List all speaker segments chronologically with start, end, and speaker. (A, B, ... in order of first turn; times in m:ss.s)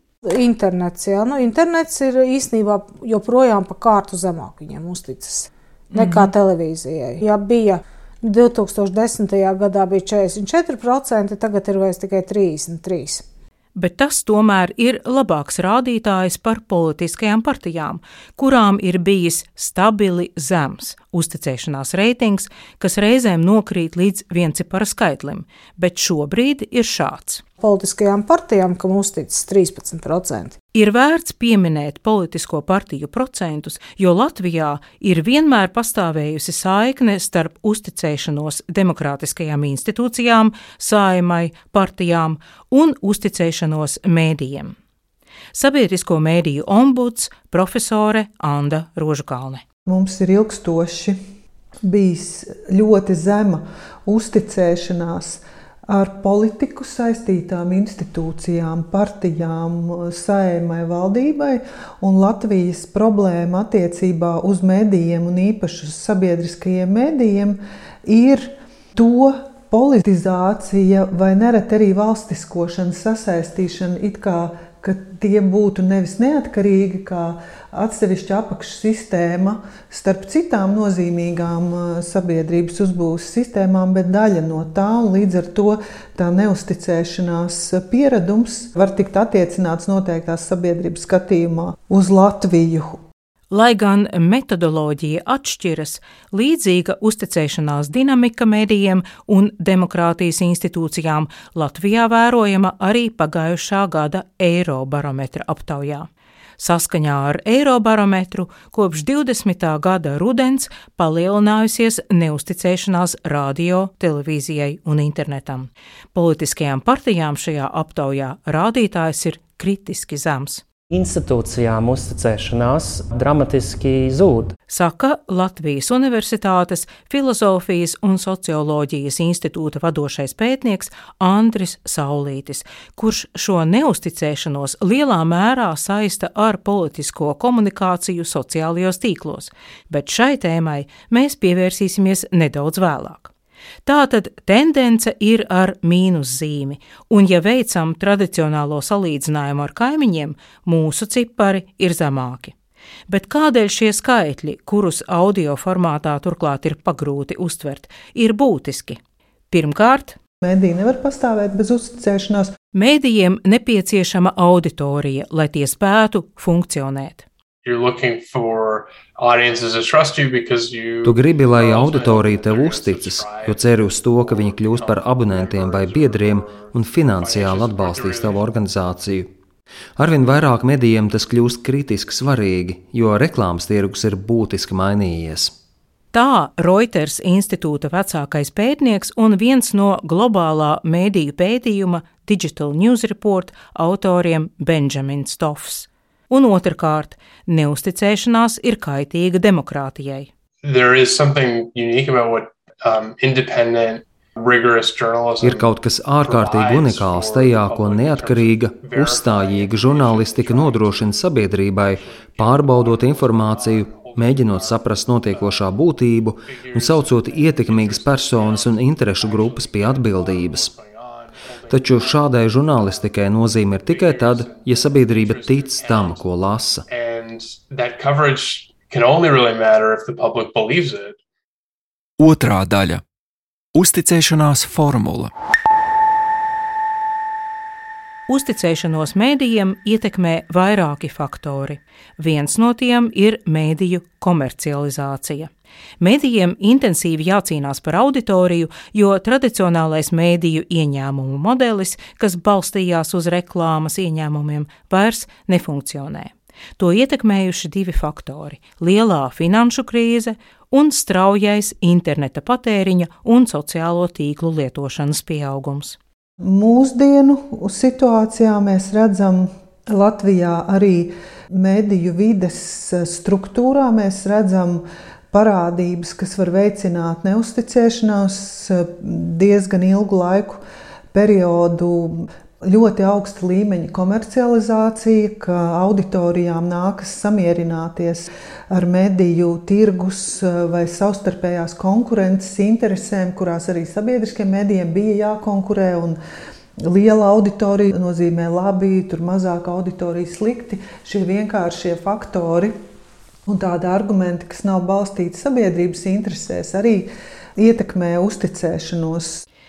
0:00.2-0:13.2 A
0:13.8-0:27.4 B
0:27.6-0:30.6 A
0:30.7-0:44.8 B
0:45.5-0:49.6 B
0:49.9-0:51.2 C
0:51.8-1:33.0 C
1:33.5-2:00.6 B
2:00.9-2:04.6 D
2:04.7-2:23.3 B
2:23.8-2:32.5 B
2:33.1-2:39.0 B
2:39.5-2:40.2 B
2:40.4-2:42.5 C
2:42.7-2:47.2 B
2:47.6-2:58.5 E
2:51.0-2:59.3 F
3:00.0-3:05.5 F
3:06.1-3:20.3 B
3:20.6-3:35.8 E
3:25.4-3:40.7 F
3:36.4-3:46.3 E
3:41.7-3:46.8 F
3:46.9-3:51.2 E
3:52.2-3:53.0 G
3:53.7-3:55.3 G
3:58.3-4:26.0 B
4:26.4-4:40.6 C
4:41.1-4:56.2 C
4:56.8-5:02.7 C
5:03.4-5:09.4 C